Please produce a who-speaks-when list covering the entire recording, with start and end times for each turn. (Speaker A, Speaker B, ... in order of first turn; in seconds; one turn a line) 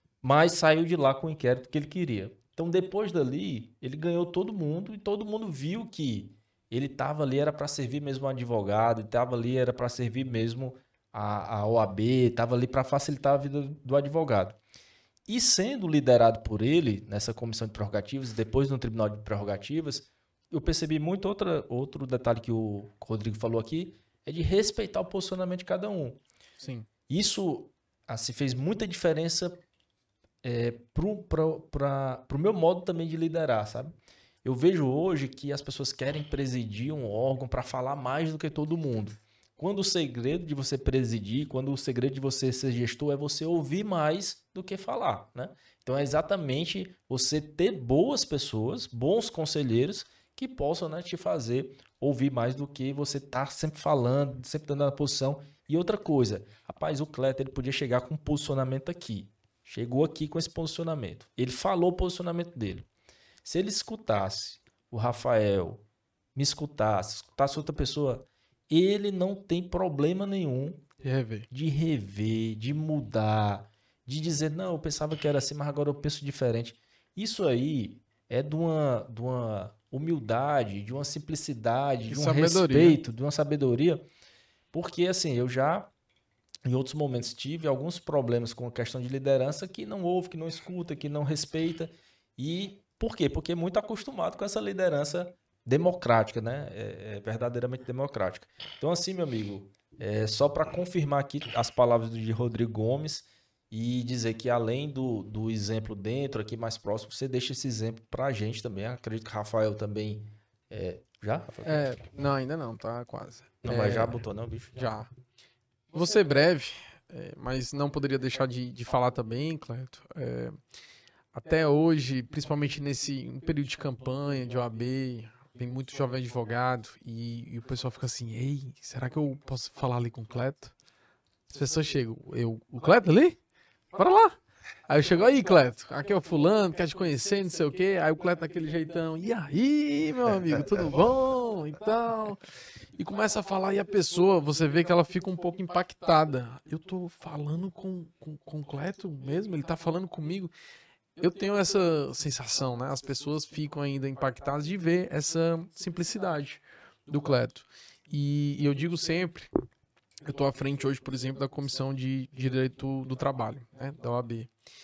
Speaker A: 0.2-14.6
Speaker A: 15.3-26.2
Speaker B: 26.6-26.9
Speaker A: 27.1-29.6
Speaker A: 30.4-33.9
Speaker A: 34.4-62.9
Speaker A: 63.4-70.8
Speaker B: 71.0-71.5
Speaker A: 71.5-84.0
Speaker B: 82.1-83.0
Speaker A: 84.7-85.9
Speaker A: 86.6-111.9
Speaker B: 111.6-115.1
Speaker A: 113.6-114.7
Speaker B: 115.9-120.6
Speaker B: 121.3-130.7
Speaker B: 131.5-133.4
Speaker B: 133.9-142.4
Speaker B: 142.9-150.5
Speaker B: 151.2-159.5
Speaker B: 160.2-164.5